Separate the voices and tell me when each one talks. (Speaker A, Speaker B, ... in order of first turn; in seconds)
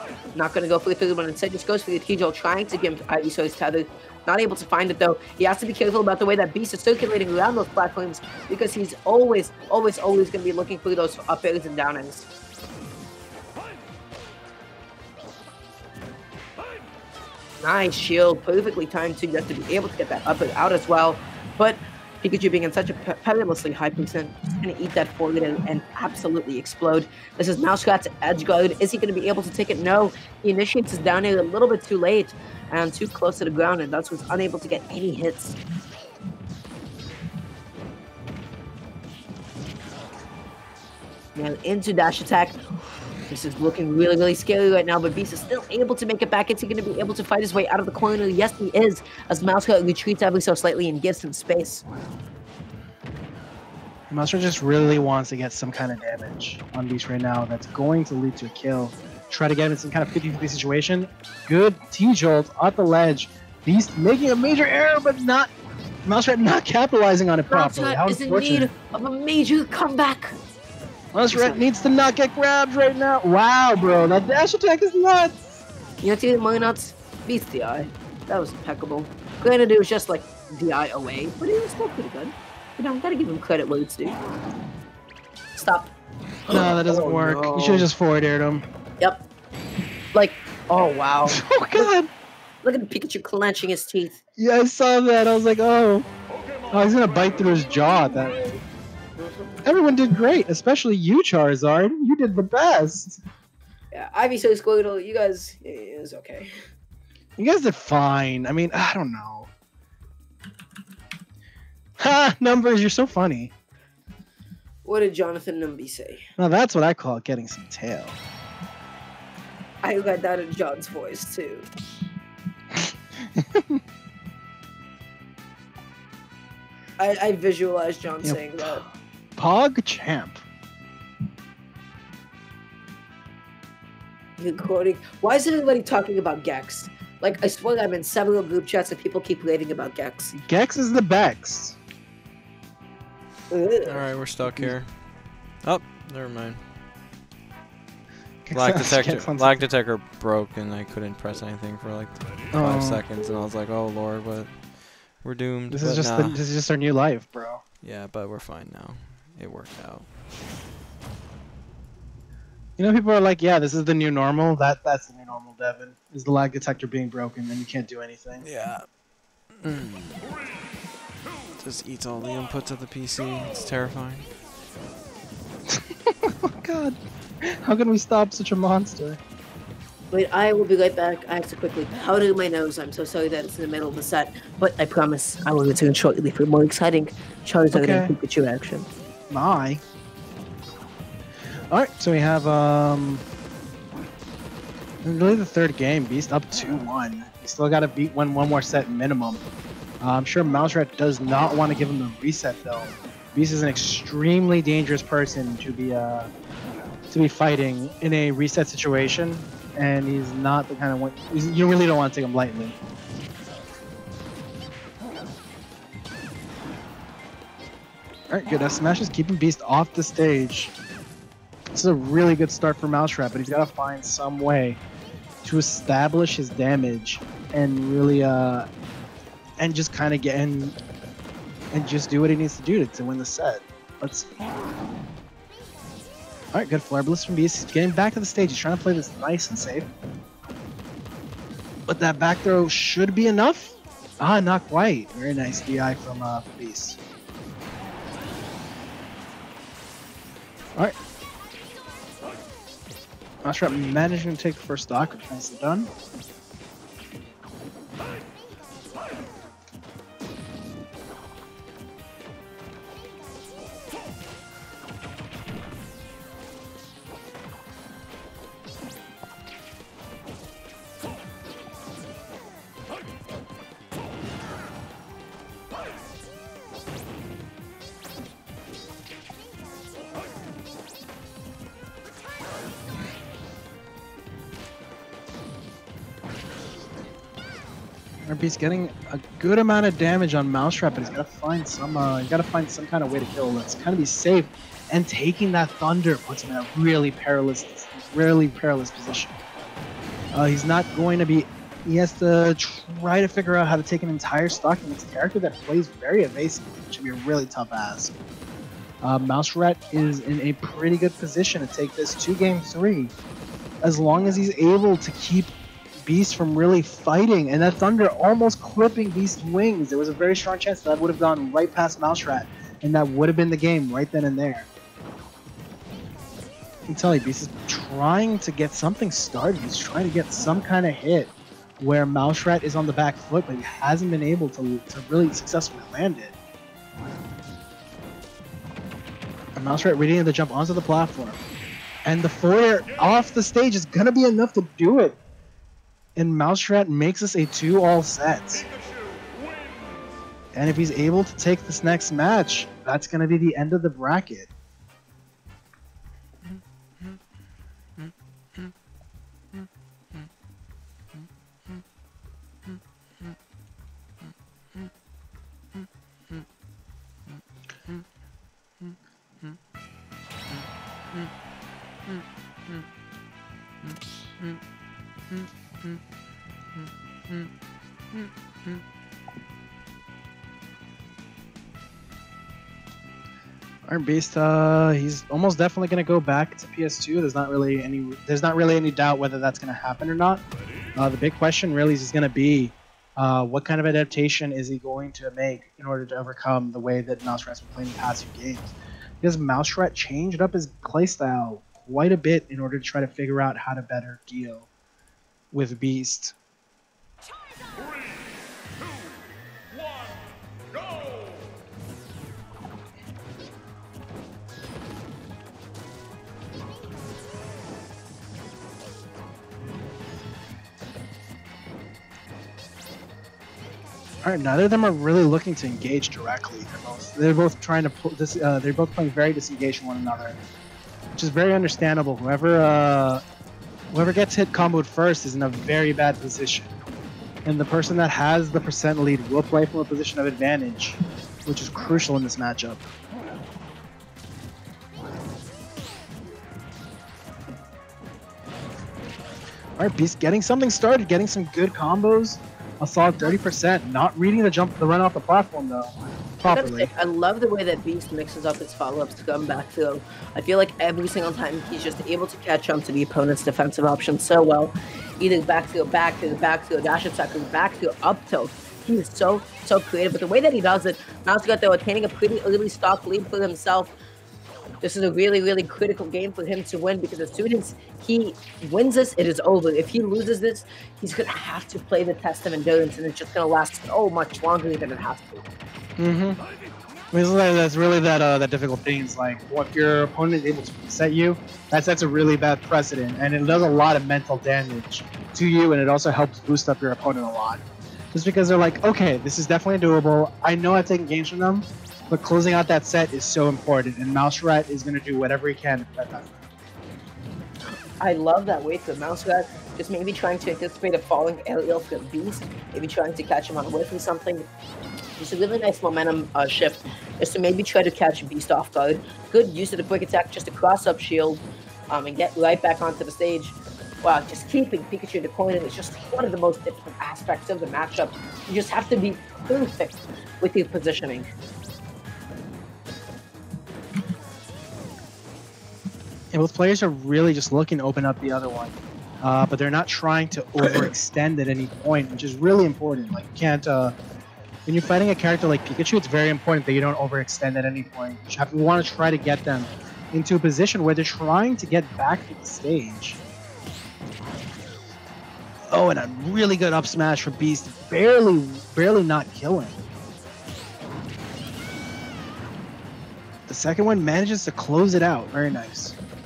Speaker A: 0.3-12.3, 17.6-35.6, 41.4-42.6, 43.3-51.8, 67.5-70.3, 71.3-71.7, 76.0-84.2, 85.5-85.9, 86.5-87.9, 90.1-91.9, 92.6-94.2, 103.9-106.5, 114.8-116.3, 119.8-121.7, 127.0-128.8, 134.4-140.3, 143.5-144.0, 180.1-188.9, 456.5-473.9, 474.8-485.4, 508.0-514.5, 515.2-531.3
Speaker B: 54.1-65.5, 66.0-68.7, 71.1-75.6, 86.5-88.7, 91.3-92.1, 94.4-96.1, 96.7-98.6, 99.6-103.2, 107.4-109.5, 112.0-113.5, 116.4-118.2, 122.8-123.8, 128.2-130.4, 140.4-141.8, 144.4-144.7, 148.4-149.6, 152.5-153.0, 155.7-157.6, 162.8-168.4, 176.4-179.2, 187.7-188.1, 189.3-189.8, 191.7-193.2, 195.0-199.4, 200.0-206.3, 207.1-212.8, 218.3-220.7, 221.7-224.8, 225.4-228.7, 229.6-230.8, 231.7-234.3, 236.5-239.9, 241.8-247.0, 253.4-255.9, 288.2-299.4, 300.3-308.1, 309.0-313.1, 313.8-324.7, 326.9-336.3, 339.6-341.4, 342.0-345.2, 346.1-348.6, 350.5-354.5, 383.9-390.4, 391.0-404.7, 405.5-406.3, 424.2-430.4, 431.1-433.2, 433.9-436.7, 437.4-442.8, 449.8-456.9, 486.0-486.4, 487.1-497.6, 498.1-506.4, 536.3-544.0, 544.6-553.2, 555.7-559.8, 563.5-565.9
Speaker C: 143.8-145.0, 145.6-146.6, 148.5-156.4, 157.8-160.1, 168.4-168.9, 169.5-170.3, 171.6-174.3, 358.0-358.7, 364.2-364.9, 365.7-366.4, 367.3-368.0, 368.8-369.6, 370.5-371.3, 372.1-372.8, 373.8-374.6, 375.3-376.0, 378.1-378.8